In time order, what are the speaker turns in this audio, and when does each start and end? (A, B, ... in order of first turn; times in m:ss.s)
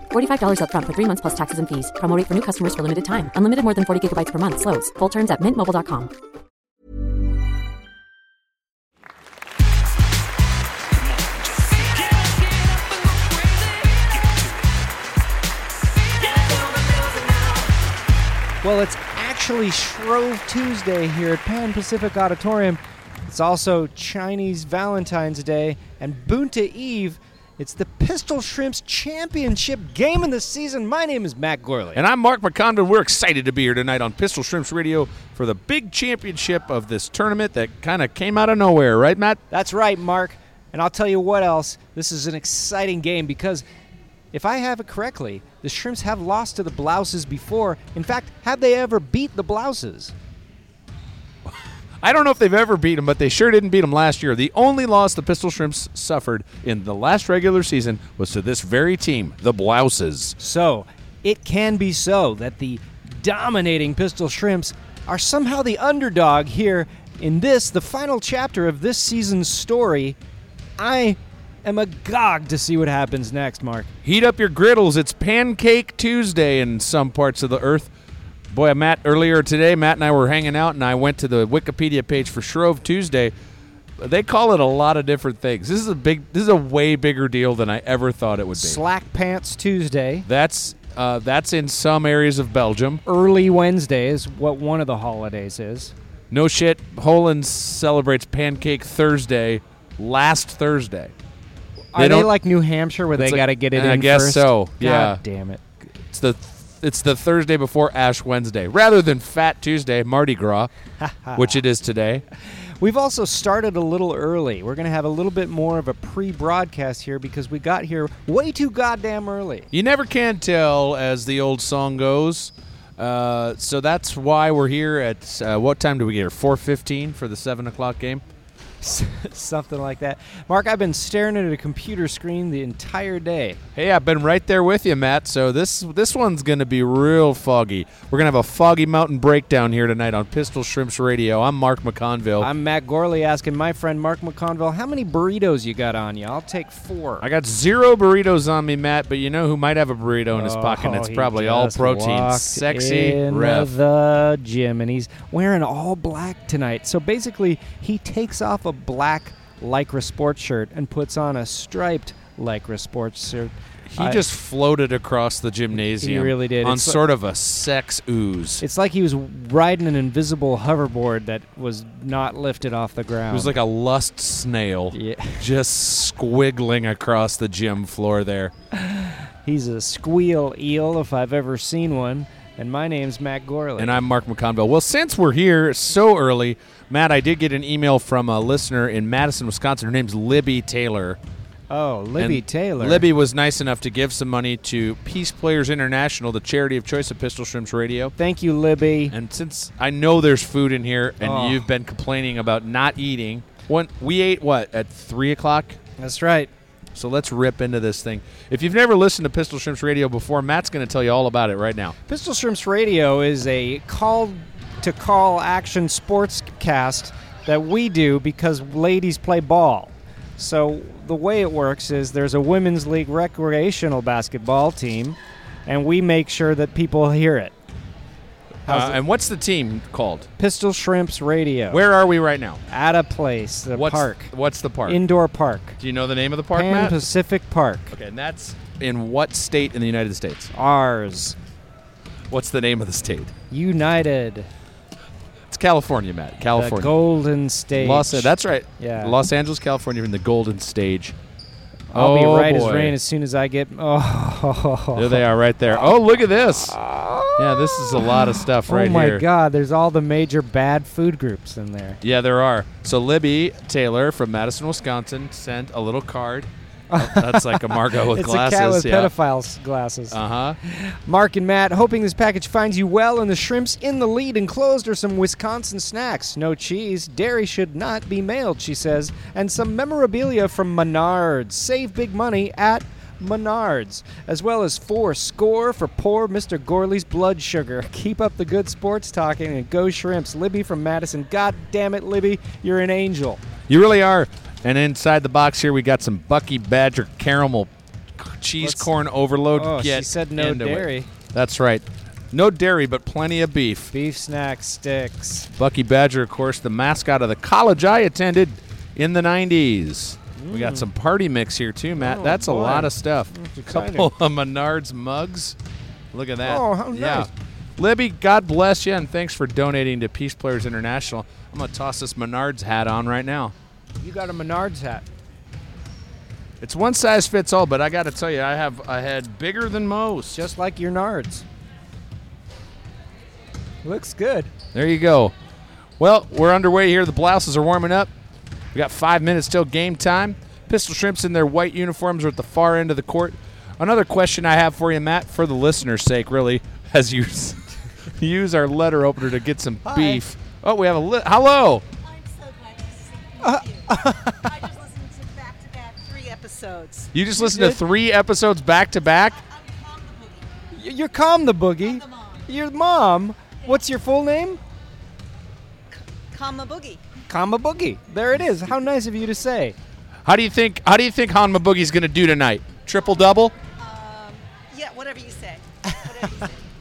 0:00.1-0:06.1 A
0:11.2-0:14.2 B
0:16.1-0:17.7 B
0:18.6-0:32.0 C
0:31.9-0:39.4 D
0:39.5-0:43.6 C
0:44.3-0:50.1 C
0:51.4-1:00.4 D
1:00.4-1:10.2 C
1:10.8-1:13.9 C
1:14.0-1:17.9 D
1:18.5-1:23.3 D
1:24.0-1:28.8 D
1:28.5-1:30.2 C
1:30.2-1:33.0 D
1:33.0-1:35.9 C
1:36.3-1:41.1 D
1:41.9-1:45.6 C
1:42.0-1:42.3 D
1:43.2-1:45.2 D
1:46.0-1:50.7 D
1:51.0-1:51.5 C
1:51.3-1:52.2 D
1:52.8-1:59.7 C
1:59.7-2:08.2 D
2:08.8-2:13.6 C
2:13.7-2:22.5 D
2:22.4-2:27.2 C
2:27.2-2:33.7 D
2:30.3-2:44.2 C
2:43.9-2:48.6 D
2:46.0-2:47.0 C
2:48.6-2:53.5 C
2:53.3-2:58.5 D
2:54.9-2:55.4 C
2:58.7-3:03.9 C
3:03.8-3:11.2 D
3:11.7-3:13.1 C
3:12.2-3:18.1 D
3:18.2-3:19.1 C
3:19.1-3:25.8 D
3:21.2-3:21.6 C
3:26.0-3:26.5 C
3:26.9-3:32.0 D
3:32.1-3:47.5 C
3:48.6-3:50.3 D
3:48.6-3:49.0 C
3:50.4-3:51.8 C
3:51.7-3:52.6 D
3:52.7-3:54.3 C
3:53.7-3:55.0 D
3:54.8-3:55.8 C
3:55.8-3:57.0 D
3:56.5-3:57.9 C
3:57.9-4:00.5 D
4:00.5-4:01.4 C
4:02.3-4:03.3 D
4:03.5-4:04.5 C
4:05.5-4:06.9 D
4:06.5-4:09.2 C
4:07.7-4:11.1 D
4:11.9-4:15.2 C
4:11.9-4:13.0 D
4:14.9-4:16.8 D
4:16.8-4:22.0 C
4:17.4-4:19.2 D
4:22.0-4:29.1 D
4:26.9-4:53.4 C
4:30.1-4:30.6 D
4:53.7-5:03.9 D
4:58.6-4:58.9 C
4:59.5-5:01.1 C
5:03.9-5:05.5 C
5:05.6-5:15.6 D
5:10.4-5:10.9 C
5:12.0-5:14.1 C
5:16.1-5:23.5 D
5:16.4-5:17.3 C
5:24.0-5:25.0 C
5:26.6-5:30.4 D
5:30.3-5:31.4 C
5:33.8-5:34.5 C
5:34.7-5:35.3 D
5:36.0-5:38.1 D
5:38.7-5:51.8 D
5:49.8-5:50.2 C
5:51.9-5:57.1 B
5:53.4-5:54.4 C
5:57.1-5:59.4 D
5:57.3-5:57.8 C
5:59.3-6:00.5 B
6:00.7-6:04.6 C
6:01.8-6:02.5 B
6:06.3-6:07.0 B
6:07.3-6:09.8 C
6:10.2-6:13.5 D
6:13.8-6:16.7 B